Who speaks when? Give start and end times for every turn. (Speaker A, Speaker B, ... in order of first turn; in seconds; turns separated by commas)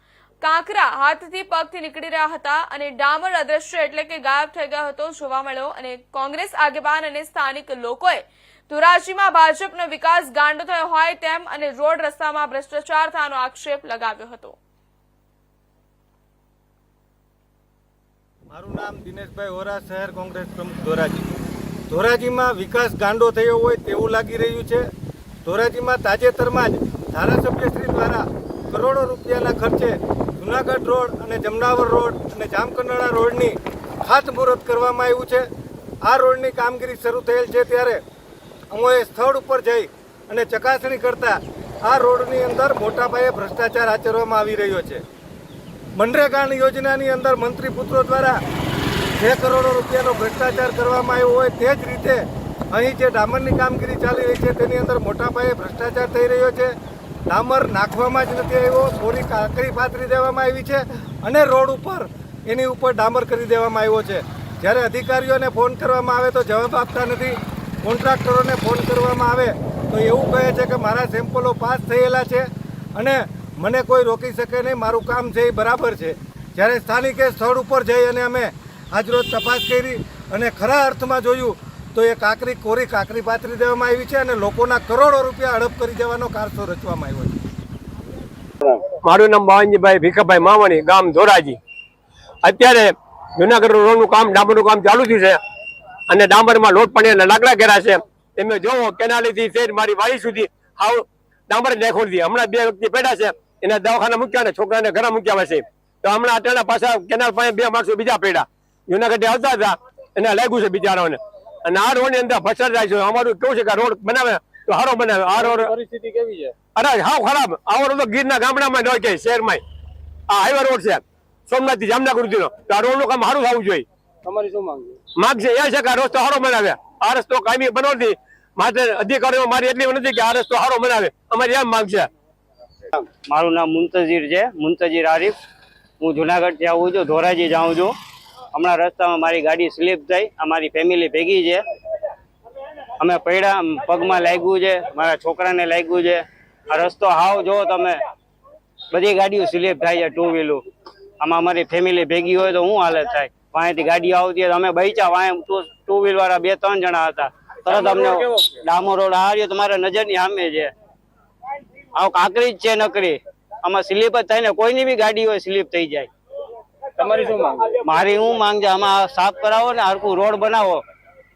Speaker A: 0.4-14.6, Speaker B: 18.5-21.3, Speaker B: 21.9-24.9, Speaker B: 25.4-35.5, Speaker B: 36.0-38.0, Speaker B: 38.7-45.0, Speaker B: 46.0-48.4, Speaker B: 49.2-56.8, Speaker B: 57.3-87.4, Speaker C: 89.0-91.6, Speaker C: 92.4-95.4, Speaker C: 96.1-115.7, Speaker D: 115.3-116.5, Speaker C: 116.8-119.6, Speaker C: 120.3-123.9, Speaker D: 124.2-125.0, Speaker C: 125.2-132.1, Speaker E: 133.2-135.3, Speaker E: 136.0-137.9, Speaker E: 138.5-141.6, Speaker E: 143.0-148.0, Speaker E: 148.9-150.7, Speaker E: 151.2-160.7, Speaker E: 161.9-166.1, Speaker D: 167.0-167.7, Speaker E: 167.8-170.8